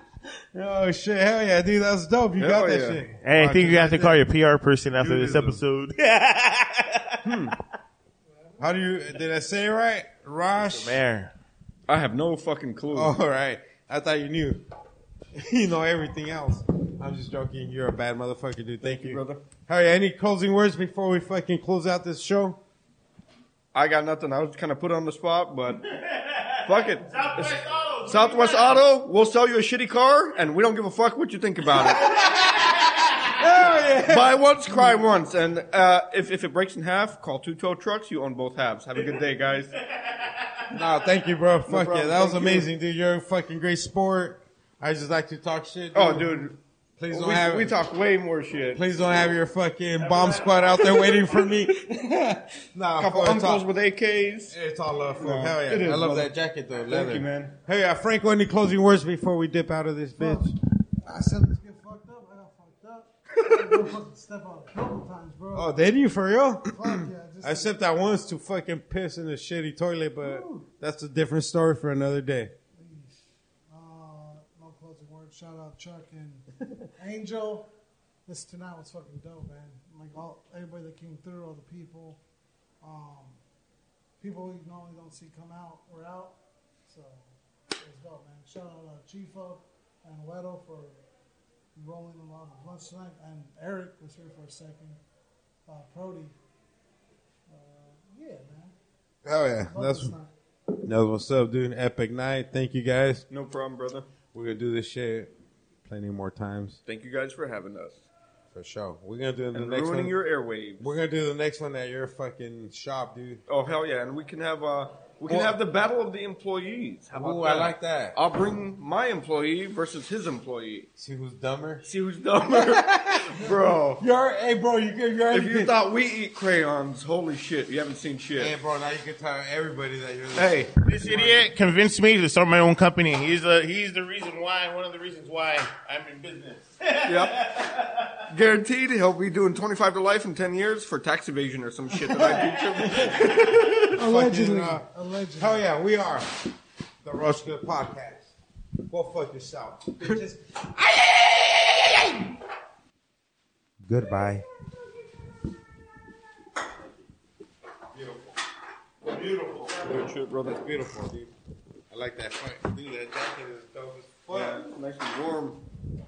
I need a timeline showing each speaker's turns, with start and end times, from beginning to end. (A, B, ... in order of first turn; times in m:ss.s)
0:00.5-0:04.2 A
0:02.4-0:03.1 B
0:03.2-0:07.2 C
0:05.0-0:05.6 A
0:07.2-0:07.5 B
0:08.6-0:11.0 A
0:10.6-0:11.3 C
0:11.9-0:13.1 B
0:12.9-0:14.6 A
0:15.4-0:22.6 A
0:18.8-0:19.4 B
0:23.7-0:25.8 B
0:25.9-0:28.8 C
0:26.6-0:27.4 B
0:28.0-0:32.1 B
0:31.8-0:33.4 C
0:33.4-0:35.0 A
0:34.0-0:39.8 B
0:39.9-0:40.7 C
0:40.7-0:47.8 A
0:41.7-0:42.7 B
0:45.9-0:46.6 B
0:47.1-0:48.8 B
0:48.8-0:53.7 A
0:50.0-0:51.3 C
0:53.0-0:54.5 B
0:54.5-1:00.6 A
0:55.2-0:57.6 B
1:00.2-1:00.5 D
1:01.0-1:05.7 D
1:05.5-1:12.5 A
1:06.7-1:07.7 D
1:12.8-1:16.4 D
1:17.0-1:17.7 D
1:18.3-1:22.2 D
1:22.8-1:23.4 D
1:24.2-1:26.4 D
1:26.9-1:27.3 D
1:27.8-1:31.0 D
1:31.8-1:35.0 D
1:35.7-1:36.3 D
1:37.5-1:38.7 D
1:39.2-1:40.1 A
1:39.7-1:40.3 D
1:40.8-1:43.3 A
1:43.3-1:44.1 B
1:44.3-1:45.3 A
1:45.8-1:46.8 A
1:46.8-1:48.1 B
1:48.5-1:50.2 A
1:49.5-1:50.8 B
1:50.8-1:53.4 A
1:53.5-2:00.9 B
1:55.3-1:55.6 A
1:57.1-1:58.2 A
2:01.0-2:01.9 A
2:01.8-2:04.0 B
2:02.4-2:05.8 A
2:05.3-2:08.6 B
2:08.4-2:11.5 A
2:10.4-2:10.7 B
2:10.8-2:18.2 C
2:17.1-2:17.4 B
2:18.3-2:23.9 B
2:23.9-2:26.3 A
2:23.9-2:25.6 D
2:27.0-2:28.3 A
2:28.9-2:30.4 A
2:33.8-2:34.4 A
2:37.9-2:38.4 A
2:39.1-2:39.9 A
2:39.8-2:40.6 B
2:40.4-2:41.3 A
2:41.9-2:44.7 A
2:44.3-2:45.6 B